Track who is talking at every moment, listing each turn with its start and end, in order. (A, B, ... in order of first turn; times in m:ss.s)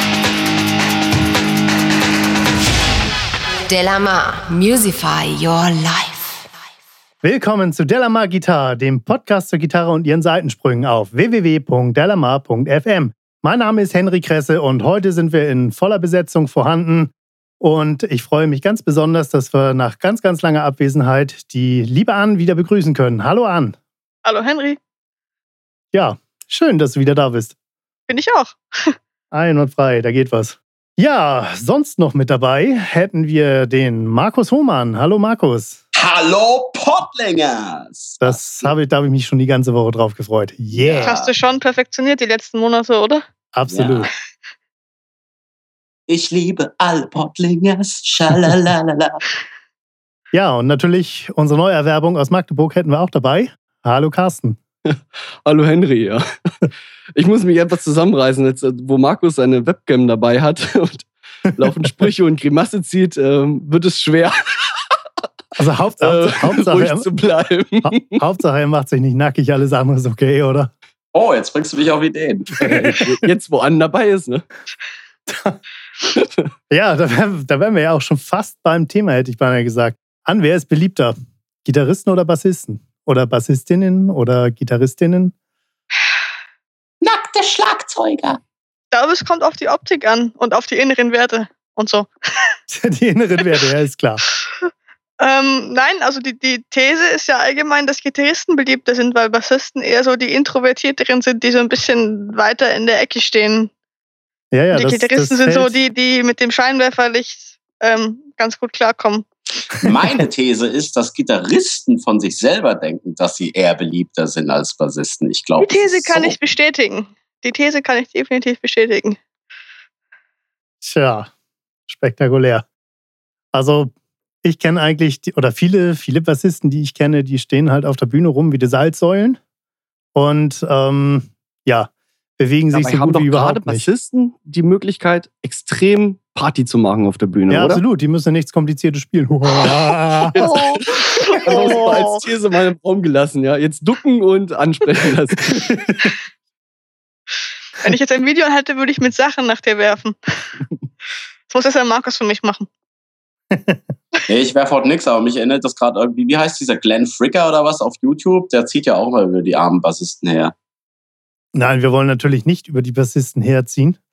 0:03.7-0:06.5 A
0:07.2-0:23.8 B
0:24.2-0:24.8 C
0:25.9-0:27.6 B
0:28.1-0:29.0 C
0:29.3-0:35.8 B
0:36.0-0:38.7 D
0:38.2-0:41.2 B
0:40.7-0:41.3 D
0:41.0-0:43.2 C
0:43.5-0:44.1 B
0:43.7-0:44.1 D
0:46.1-0:49.2 D
0:50.3-0:54.6 B
0:54.9-1:04.4 E
1:05.6-1:07.1 B
1:06.0-1:08.2 E
1:07.8-1:10.7 B
1:11.1-1:13.0 D
1:12.6-1:14.5 E
1:15.3-1:15.6 B
1:16.7-1:25.3 B
1:27.0-1:28.4 D
1:28.9-1:32.1 C
1:32.7-1:34.2 B
1:34.4-1:43.7 C
1:44.5-1:45.8 B
1:44.7-1:49.3 C
1:49.8-1:56.4 D
1:55.6-1:59.2 C
2:00.8-2:01.3 B
2:01.9-2:02.7 B
2:03.5-2:03.9 B
2:04.4-2:09.4 B
2:10.2-2:13.9 B
2:12.7-2:17.8 E
2:17.5-2:20.5 B
2:20.4-2:22.2 C
2:20.4-2:25.7 E
2:25.8-2:26.1 B
2:27.8-2:30.5 C
2:31.5-2:32.7 C
2:33.5-2:34.0 B
2:34.3-2:40.5 D
2:41.6-2:44.0 B